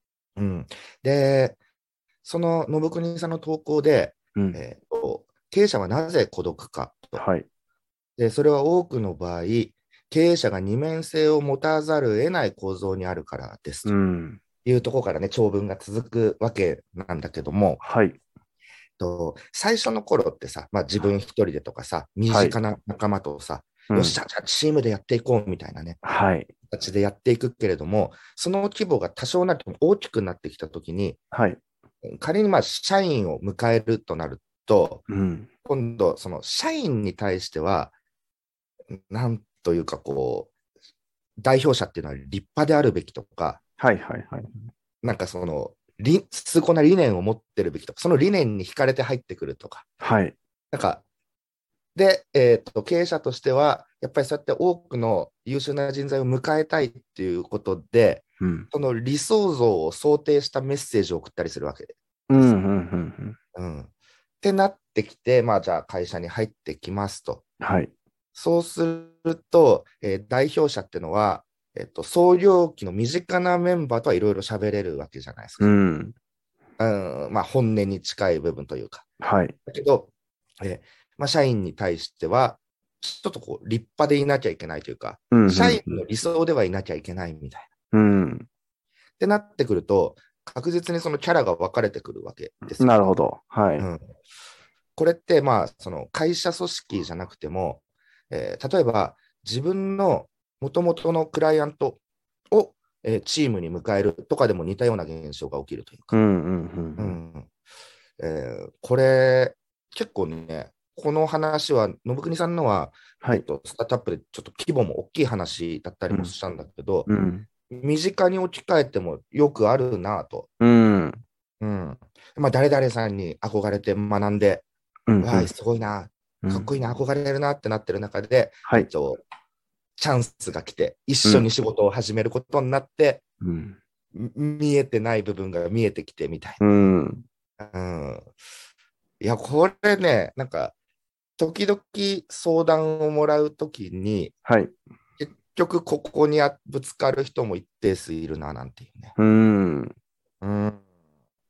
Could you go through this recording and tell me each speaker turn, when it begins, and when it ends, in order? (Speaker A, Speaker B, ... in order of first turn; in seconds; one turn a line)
Speaker A: 0.3-1.6
Speaker A: 2.2-7.2
Speaker B: 4.3-4.6
Speaker B: 7.1-7.5
Speaker A: 8.2-13.9
Speaker B: 13.8-14.4
Speaker A: 14.6-17.8
Speaker B: 17.8-18.2
Speaker A: 19.0-26.0
Speaker B: 22.3-22.6
Speaker B: 23.9-24.2
Speaker B: 26.0-26.5
Speaker A: 26.7-31.2
Speaker B: 31.3-31.6
Speaker A: 32.0-35.0
Speaker B: 35.1-35.5
Speaker A: 35.6-37.9
Speaker A: 38.9-40.5
Speaker A: 41.4-43.6
Speaker B: 43.8-44.7
Speaker A: 45.0-49.9
Speaker B: 50.0-50.4
Speaker A: 50.7-51.0
Speaker A: 51.9-62.5
Speaker B: 58.4-58.7
Speaker B: 62.3-63.4
Speaker A: 63.5-63.9
Speaker A: 64.4-67.4
Speaker B: 67.6-67.9
Speaker A: 68.3-75.7
Speaker B: 75.6-76.1
Speaker A: 76.8-79.0
Speaker B: 79.2-79.5
Speaker A: 79.7-87.7
Speaker B: 85.3-86.0
Speaker B: 87.9-88.5
Speaker A: 89.2-93.1
Speaker B: 92.8-93.9
Speaker A: 93.8-94.1
Speaker A: 95.0-102.0
Speaker A: 102.5-106.2
Speaker B: 106.1-107.2
Speaker A: 107.0-107.5
Speaker A: 108.2-117.1
Speaker B: 117.1-117.5
Speaker A: 117.7-120.5
Speaker B: 120.6-121.2
Speaker A: 121.6-124.6
Speaker B: 125.1-125.5
Speaker A: 125.2-129.2
Speaker B: 126.4-126.7
Speaker A: 130.0-133.2
Speaker B: 133.4-133.8
Speaker A: 134.1-136.7
Speaker B: 136.6-137.2
Speaker A: 137.6-138.3
Speaker A: 139.2-140.7
Speaker A: 141.4-144.3
Speaker B: 144.4-144.7
Speaker A: 145.2-149.1
Speaker B: 149.2-149.9
Speaker A: 150.4-150.8